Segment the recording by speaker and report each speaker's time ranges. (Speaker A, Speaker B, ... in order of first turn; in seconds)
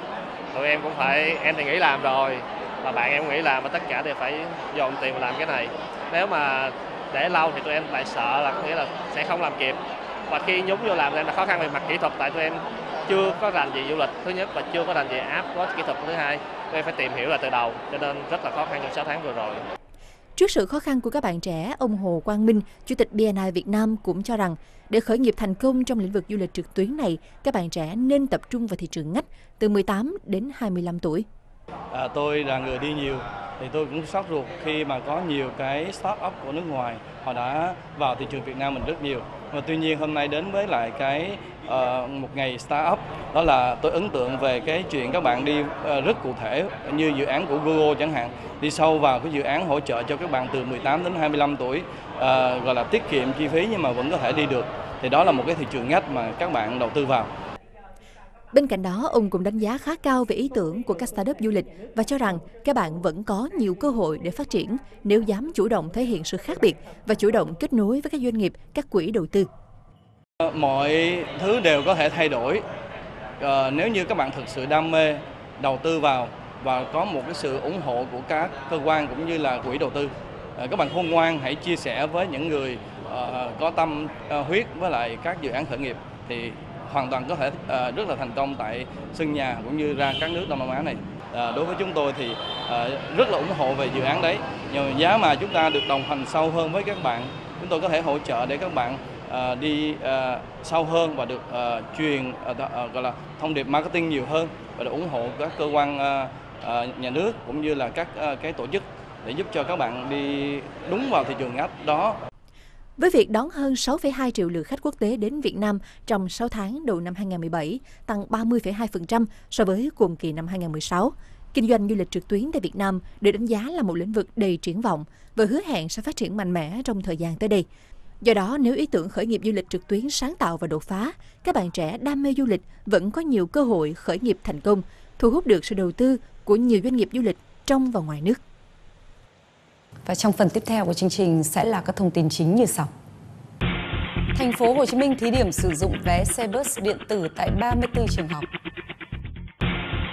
Speaker A: 0.5-9.8, 10.3-19.6
Speaker B: 20.4-31.3, 58.5-69.5, 113.0-127.7, 128.2-138.4
Speaker C: 31.9-57.3, 70.4-72.6, 73.4-112.2
Speaker D: 140.1-142.9, 144.3-148.5